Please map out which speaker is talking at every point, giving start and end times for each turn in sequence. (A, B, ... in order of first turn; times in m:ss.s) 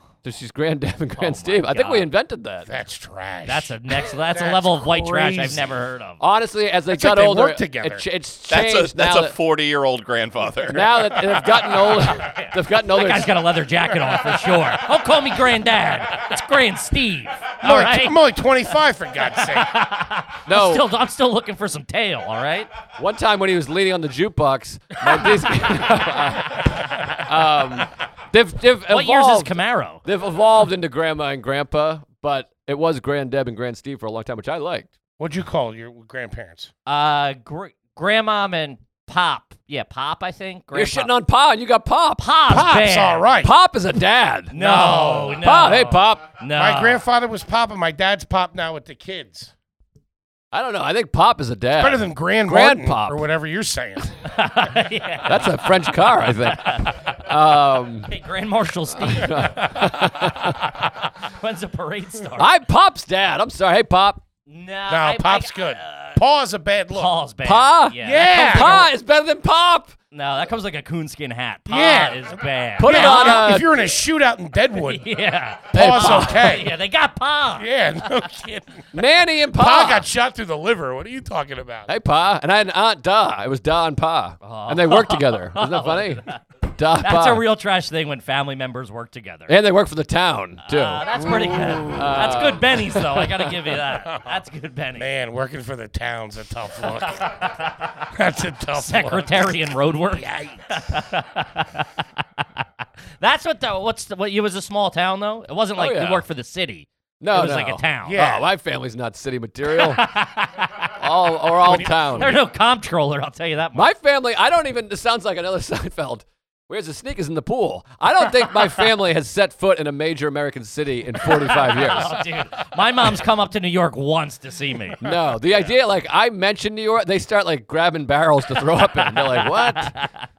0:00.2-0:02.7 A
0:01.2-0:02.1 B
0:02.7-0:05.7 C
0:03.5-0:06.2 B
0:06.2-0:09.4 A
0:06.9-0:08.0 C
0:08.5-0:11.2 D
0:10.7-0:13.3 A
0:12.0-0:18.2 B
0:17.6-0:19.8 C
0:19.3-0:22.7 B
0:20.5-0:20.9 A
0:23.0-0:34.9 A
0:28.9-0:30.0 B
0:35.2-0:36.7 C
0:36.9-0:41.1 B
0:40.7-0:42.3 A
0:42.2-0:43.3 B
0:42.5-0:43.5 C
0:43.4-0:44.6 A
0:44.5-0:47.0 B
0:44.6-0:45.4 C
0:45.4-0:46.3 A
0:46.6-0:49.5 C
0:50.5-0:53.2 A
0:51.8-0:54.2 C
0:54.2-0:57.0 B
0:55.3-0:58.1 A
0:58.1-1:02.5 B
0:59.0-1:00.8 A
1:02.4-1:04.2 A
1:04.5-1:06.2 B
1:04.9-1:07.1 C
1:06.9-1:08.8 B
1:07.4-1:10.0 A
1:08.0-1:08.9 C
1:10.1-1:13.6 B
1:11.7-1:15.1 C
1:12.8-1:13.7 A
1:14.8-1:17.7 B
1:15.7-1:16.7 C
1:15.7-1:16.5 A
1:17.6-1:18.9 C
1:18.9-1:20.1 A
1:19.5-1:21.9 C
1:21.9-1:27.4 A
1:24.4-1:26.4 B
1:27.0-1:29.5 B
1:29.5-1:33.5 A
1:30.7-1:35.1 B
1:34.1-1:34.3 C
1:35.0-1:39.6 C
1:37.2-1:37.9 B
1:38.8-1:41.9 B
1:40.1-1:41.0 C
1:43.2-1:48.2 B
1:45.8-1:46.2 A
1:47.2-1:50.1 A
1:48.1-1:48.5 C
1:49.7-1:50.9 B
1:51.0-1:52.4 A
1:51.7-1:52.4 C
1:51.7-1:53.9 B
1:53.8-2:02.2 A
2:01.4-2:05.7 B
2:05.0-2:10.0 A
2:09.1-2:10.3 B